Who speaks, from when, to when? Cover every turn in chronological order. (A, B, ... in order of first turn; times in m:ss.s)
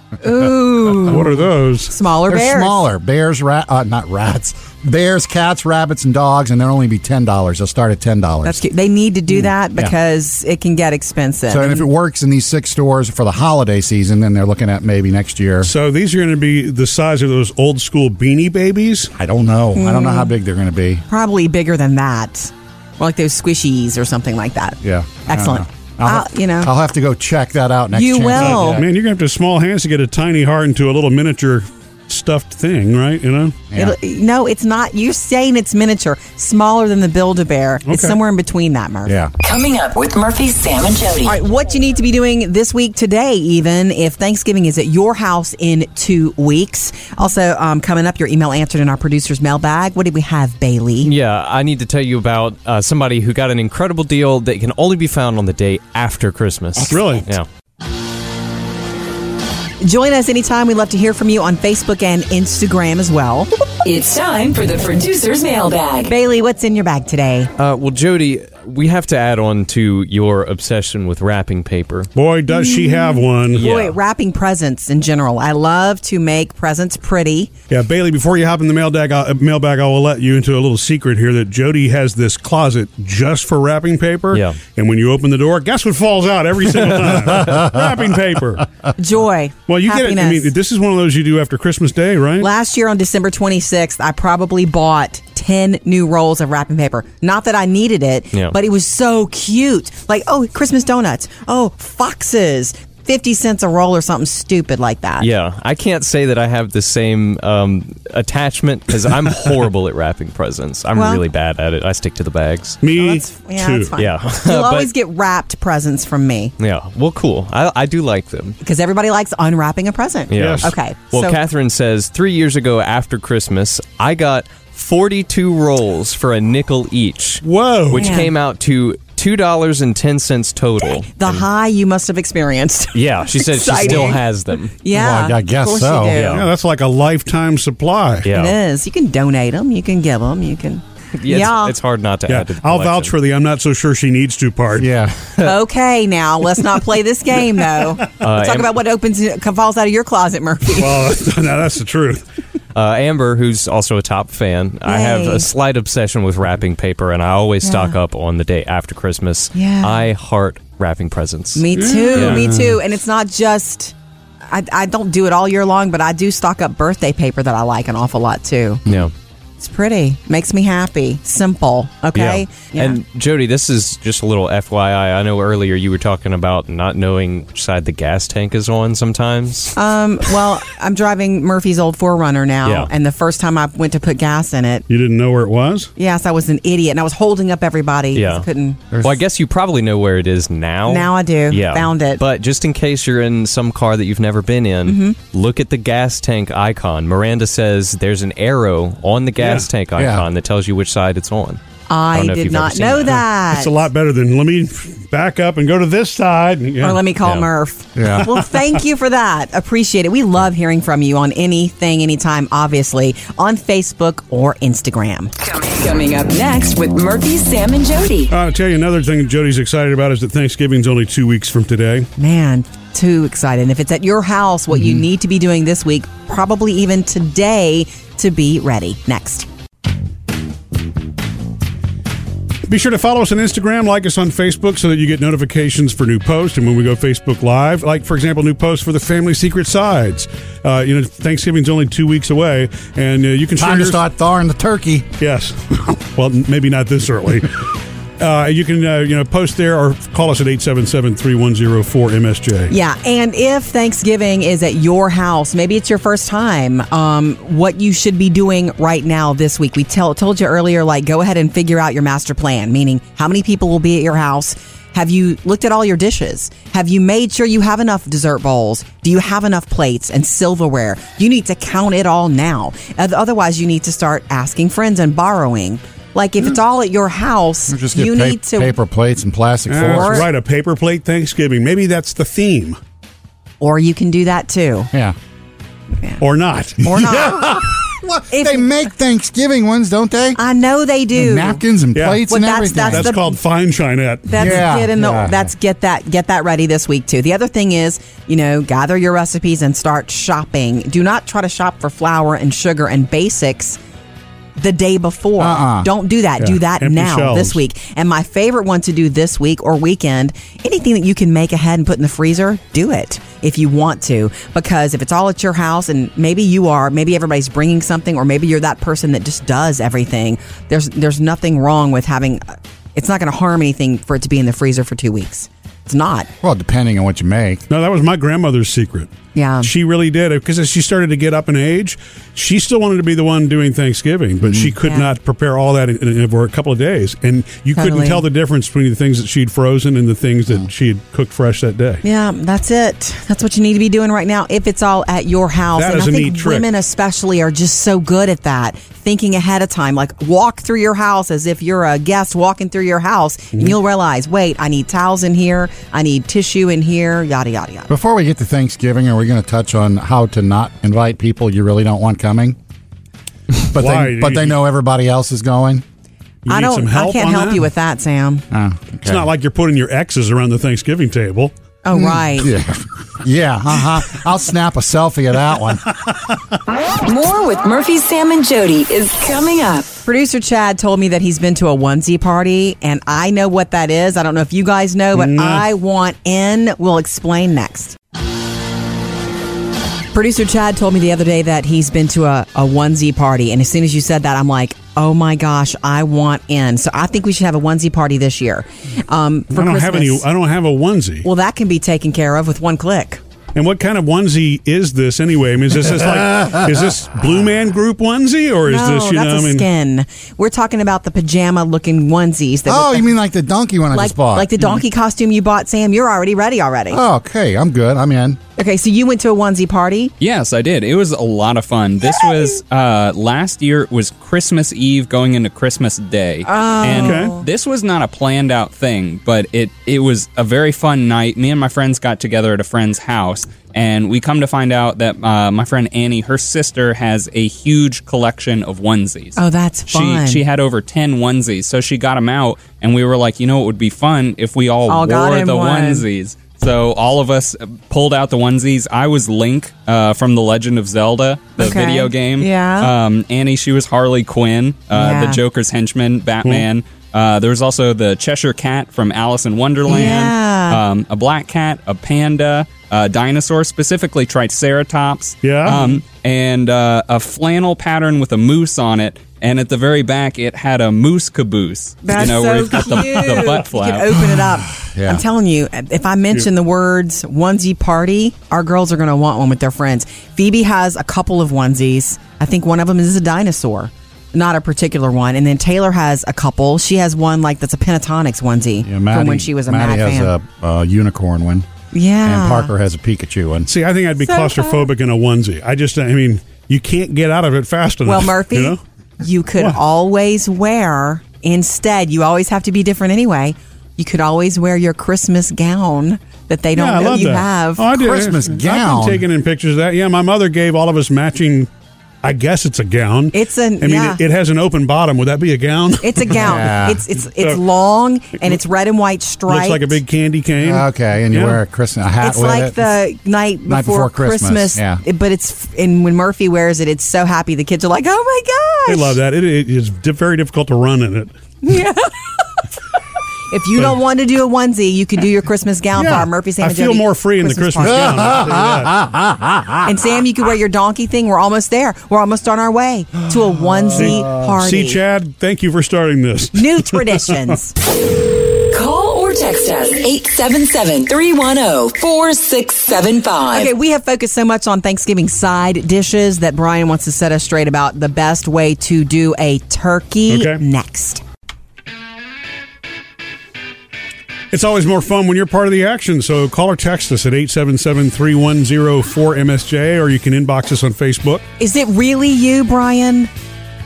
0:00.2-0:02.8 A
0:01.0-0:01.9 B
0:02.3-0:08.6 C
0:08.4-0:11.9 A
0:09.3-0:09.9 C
0:11.5-0:15.7 C
0:15.6-0:19.1 B
0:19.2-0:21.0 C
0:19.8-0:20.3 A
0:21.1-0:26.7 A
0:24.8-0:28.9 C
0:27.9-0:28.8 A
0:28.4-0:33.6 B
0:33.8-0:39.2 A
0:37.9-0:38.2 B
0:39.1-0:39.3 C
0:39.4-0:41.4 D
0:41.2-0:51.1 A
0:51.0-0:57.5 E
0:56.8-0:57.2 A
0:56.9-0:57.2 B
0:59.8-1:03.5 A
1:03.8-1:06.1 D
1:06.0-1:07.5 A
1:07.6-1:12.1 E
1:12.2-1:13.6 B
1:12.5-1:17.5 A
1:13.5-1:14.0 E
1:17.7-1:28.7 B
1:24.3-1:24.6 E
1:27.3-1:28.0 C
1:29.0-1:30.5 A
1:29.7-1:32.5 B
1:32.4-1:45.3 A
1:45.2-1:52.8 E
1:51.0-1:51.2 A
1:52.8-1:53.9 B
1:52.9-1:56.5 A
1:54.0-1:54.9 E
1:56.6-1:58.6 E
1:58.6-2:01.4 A
2:00.3-2:11.4 E
2:00.4-2:00.7 B
2:07.4-2:08.1 B
2:08.0-2:08.3 A
2:11.1-2:16.4 A
2:13.0-2:14.7 E
2:14.9-2:16.2 C
2:16.2-2:16.5 E
2:16.2-2:18.3 B
2:18.2-2:18.6 E
2:18.3-2:21.7 A
2:21.2-2:23.2 E
2:22.3-2:24.9 B
2:24.8-2:25.3 C
2:25.4-2:31.2 A
2:28.2-2:28.7 E
2:30.7-2:32.2 B
2:32.8-2:42.5 E
2:34.9-2:35.5 A
2:37.6-2:38.0 A
2:39.5-2:40.1 A
2:41.6-2:43.9 A
2:41.7-2:42.8 B
2:44.5-2:48.8 A
2:48.9-2:49.1 E
2:49.6-2:53.0 A
2:52.2-2:59.8 E
2:59.8-3:04.8 A
3:04.9-3:05.9 B
3:06.0-3:08.8 A
3:08.1-3:08.5 E
3:08.9-3:09.2 C
3:09.0-3:21.6 E
3:10.9-3:12.2 A
3:14.9-3:15.2 A
3:19.4-3:19.7 B
3:20.0-3:20.3 C
3:21.9-3:23.7 A
3:22.1-3:23.2 E
3:23.5-3:27.0 B
3:26.8-3:35.3 A
3:28.0-3:28.3 C
3:35.4-3:38.3 D
3:38.3-3:42.1 B
3:42.2-3:49.5 A
3:52.7-4:04.0 B
4:03.6-4:05.1 C
4:05.2-4:12.7 B
4:12.7-4:38.8 A
4:37.7-4:40.3 C
4:39.7-4:42.8 B
4:39.8-4:40.3 A
4:43.6-4:44.9 A
4:46.2-4:46.8 B
4:46.8-4:47.7 A
4:46.8-4:50.4 C
4:48.3-4:48.7 A
4:50.4-4:51.6 A
4:51.2-4:53.1 C
4:52.0-4:54.6 B
4:52.3-4:53.4 A
4:54.3-5:03.8 A
4:54.4-4:55.5 C
5:04.6-5:26.3 A
5:05.4-5:05.9 C
5:06.4-5:07.6 B
5:26.4-5:27.6 C
5:27.7-5:42.0 B
5:29.4-5:29.7 A
5:34.4-5:34.7 C
5:34.8-5:35.1 A
5:37.8-5:38.2 A
5:42.0-5:57.9 A
5:45.7-5:46.7 B
5:57.9-6:02.6 C
6:03.6-6:05.8 C
6:03.8-6:04.6 B
6:06.5-6:07.7 B
6:06.5-6:08.4 A
6:08.5-6:09.3 C
6:09.0-6:11.5 B
6:11.8-6:12.5 A
6:11.9-6:15.9 C
6:16.9-6:19.9 D
6:20.0-6:28.0 A
6:25.2-6:25.7 B
6:30.1-6:40.2 A
6:39.5-6:41.3 B
6:41.2-6:43.2 A
6:43.6-6:49.7 B
6:46.0-6:46.8 C
6:48.7-6:53.1 A
6:52.7-6:54.8 C
6:53.9-6:57.0 A
6:56.9-6:58.4 C
6:58.6-7:00.1 A
7:00.2-7:19.4 F
7:06.4-7:07.4 A
7:06.8-7:07.4 B
7:19.4-7:20.4 A
7:19.9-7:54.2 F
7:24.9-7:26.0 A
7:31.6-7:32.9 A
7:34.9-7:35.4 A
7:39.9-7:40.8 A
7:45.4-7:46.0 B
7:52.0-8:10.3 A
7:52.8-7:53.5 B
7:54.4-7:55.2 C
8:08.8-8:11.7 C
8:11.9-8:12.7 A
8:12.2-8:13.7 C
8:13.7-8:18.8 B
8:14.2-8:14.9 A
8:18.0-8:27.8 A
8:26.8-8:31.7 B
8:27.9-8:29.2 C
8:32.2-8:36.7 B
8:33.3-8:34.2 A
8:36.0-8:40.0 A
8:36.4-8:37.0 C
8:39.5-8:41.6 B
8:40.6-8:42.8 C
8:42.2-8:49.2 A
8:43.7-8:45.0 C
8:48.9-8:51.3 B
8:51.6-8:52.3 A
8:53.5-8:58.4 A
8:56.0-8:59.0 B
8:57.8-8:59.9 C
8:59.8-9:05.0 A
9:03.7-9:04.3 C
9:04.0-9:07.4 B
9:06.5-9:07.7 A
9:08.7-9:13.7 D
9:13.5-9:21.2 A
9:20.3-9:20.6 B
9:24.5-9:31.4 B
9:31.6-9:33.3 A